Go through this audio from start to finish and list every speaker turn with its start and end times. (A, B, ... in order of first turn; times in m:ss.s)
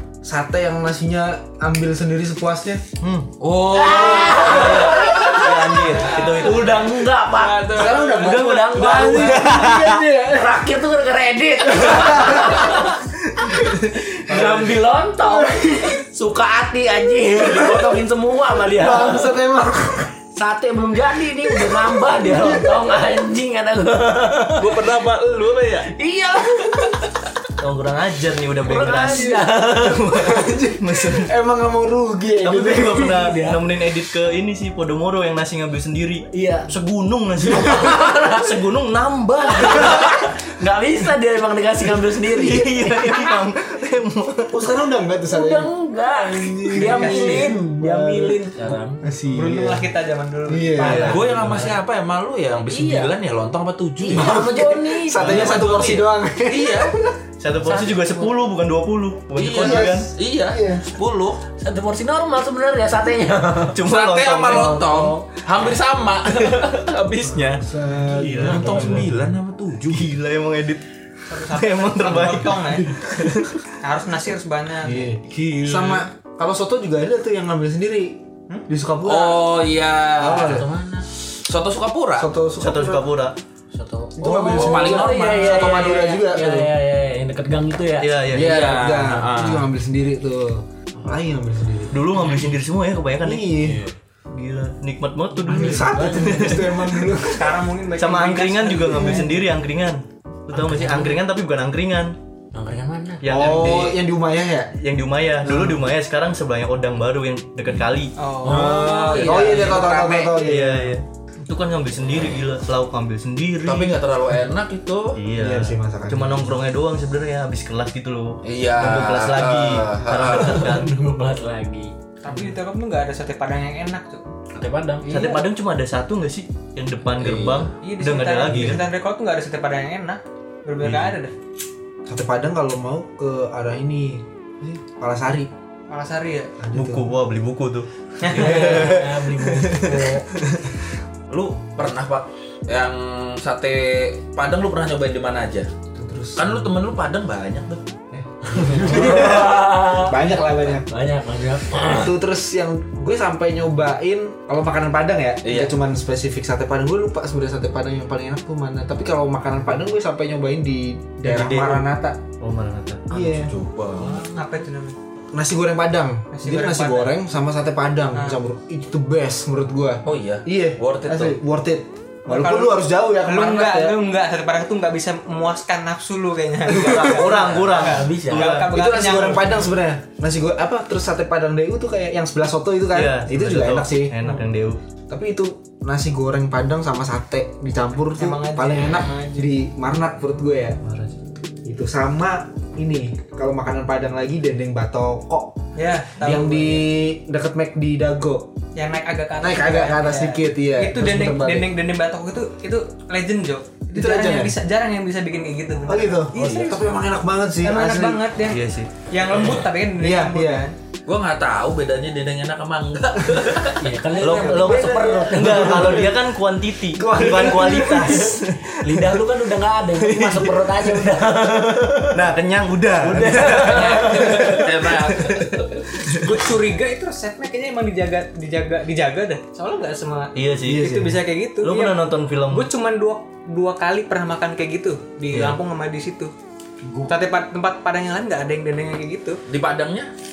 0:00.2-0:02.8 A
0:03.0-0:03.3 B
0:03.4-0:08.5 C
0:03.7-0:13.0 D
0:04.4-0:06.9 B
0:07.7-0:10.5 A
0:08.1-0:10.0 B
0:11.8-0:12.9 A
0:14.1-0:19.4 D
0:15.3-0:16.0 A
0:18.7-0:20.1 A
0:20.3-0:24.8 D
0:21.5-0:22.9 A
0:24.6-0:25.9 C
0:25.9-0:26.9 D
0:27.6-0:31.3 B
0:28.6-0:30.0 D
0:28.8-0:29.5 A
0:30.1-0:33.2 A
0:32.4-0:40.3 B
0:32.9-0:33.6 D
0:36.3-0:36.7 D
0:37.5-0:38.5 D
0:39.5-0:43.3 D
0:41.9-0:44.6 B
0:44.5-0:45.7 A
0:45.3-0:49.0 D
0:46.4-0:48.5 A
0:46.7-0:47.6 E
0:49.0-0:49.9 A
0:49.3-0:51.0 E
0:50.5-0:51.3 A
0:50.8-0:51.8 D
0:50.8-0:51.2 B
0:51.1-0:54.4 C
0:52.7-0:53.1 D
0:54.0-0:55.8 D
0:54.1-0:57.1 A
0:55.2-0:57.0 C
0:57.4-1:00.1 B
0:57.6-0:58.3 D
0:59.4-1:01.4 C
0:59.5-1:00.8 A
1:01.6-1:03.8 D
1:03.7-1:04.8 B
1:03.8-1:07.6 C
1:04.5-1:05.3 D
1:07.3-1:09.2 B
1:07.3-1:09.1 A
1:08.2-1:08.7 D
1:08.3-1:10.1 C
1:09.9-1:10.8 B
1:11.3-1:12.9 E
1:11.5-1:13.6 B
1:13.8-1:15.1 E
1:14.8-1:19.5 A
1:15.3-1:16.0 C
1:19.0-1:20.6 C
1:20.2-1:20.7 A
1:20.4-1:21.1 D
1:21.5-1:22.3 C
1:22.2-1:23.1 A
1:22.6-1:23.4 B
1:23.7-1:28.1 D
1:24.2-1:26.7 A
1:24.2-1:26.0 C
1:28.0-1:28.6 B
1:28.3-1:32.0 A
1:28.3-1:29.7 C
1:31.9-1:33.7 B
1:33.2-1:33.8 A
1:33.6-1:33.9 D
1:34.3-1:37.1 B
1:35.4-1:36.7 D
1:35.5-1:37.6 A
1:37.3-1:39.2 E
1:38.0-1:42.2 B
1:39.0-1:39.3 A
1:40.5-1:41.2 D
1:42.5-1:43.3 D
1:43.2-1:44.0 B
1:43.2-1:44.7 A
1:43.3-1:44.0 C
1:44.8-1:48.1 B
1:45.4-1:45.8 A
1:48.2-1:50.3 E
1:48.4-1:49.7 D
1:48.4-1:51.0 A
1:48.6-1:50.3 C
1:50.4-1:54.0 B
1:53.6-1:55.2 C
1:55.1-2:00.9 B
1:55.4-1:56.6 A
1:58.4-2:00.7 C
2:00.3-2:01.9 D
2:02.2-2:04.2 E
2:04.6-2:05.1 D
2:05.0-2:05.4 E
2:05.0-2:08.8 B
2:07.2-2:07.7 C
2:07.8-2:11.3 E
2:10.8-2:11.1 B
2:12.1-2:15.5 A
2:15.9-2:16.5 E
2:16.6-2:17.1 A
2:16.7-2:20.2 B
2:18.2-2:18.9 E
2:18.3-2:20.2 D
2:21.3-2:25.7 C
2:26.0-2:26.7 A
2:26.4-2:27.8 C
2:28.1-2:30.9 A
2:28.5-2:32.1 D
2:31.9-2:42.2 A
2:35.4-2:35.7 C
2:41.2-2:41.9 B
2:42.4-2:43.3 B
2:43.1-2:43.5 A
2:43.2-2:44.2 C
2:44.0-2:44.5 D
2:44.3-2:45.0 E
2:45.3-2:54.0 A
2:46.3-2:47.2 E
2:48.1-2:48.4 E
2:50.0-2:51.4 C
2:52.3-2:59.6 E
2:56.7-2:57.4 A
2:56.7-2:58.8 B
2:57.7-2:58.5 D
2:58.4-3:04.3 A
3:02.9-3:04.8 B
3:05.1-3:10.8 A
3:08.2-3:09.5 E
3:10.8-3:11.2 B
3:11.6-3:15.6 A
3:15.8-3:16.8 E
3:16.2-3:18.5 A
3:18.8-3:26.9 E
3:19.4-3:21.7 A
3:23.9-3:24.6 A
3:25.9-3:28.2 A
3:27.6-3:30.8 E
3:28.4-3:28.9 B
3:30.0-3:30.6 A
3:31.1-3:33.8 C
3:33.8-3:36.1 D
3:34.2-3:39.2 B
3:34.3-3:36.2 A
3:34.3-3:34.7 E
3:36.9-3:38.4 A
3:38.8-3:42.2 D
3:40.0-3:41.0 B
3:42.1-3:46.3 B
3:43.0-3:44.6 D
3:43.7-3:45.9 C
3:46.1-3:56.3 E
3:50.4-3:52.7 B
3:50.6-3:51.1 A
3:55.3-3:55.6 B
3:57.1-3:59.4 E
3:59.5-4:00.1 C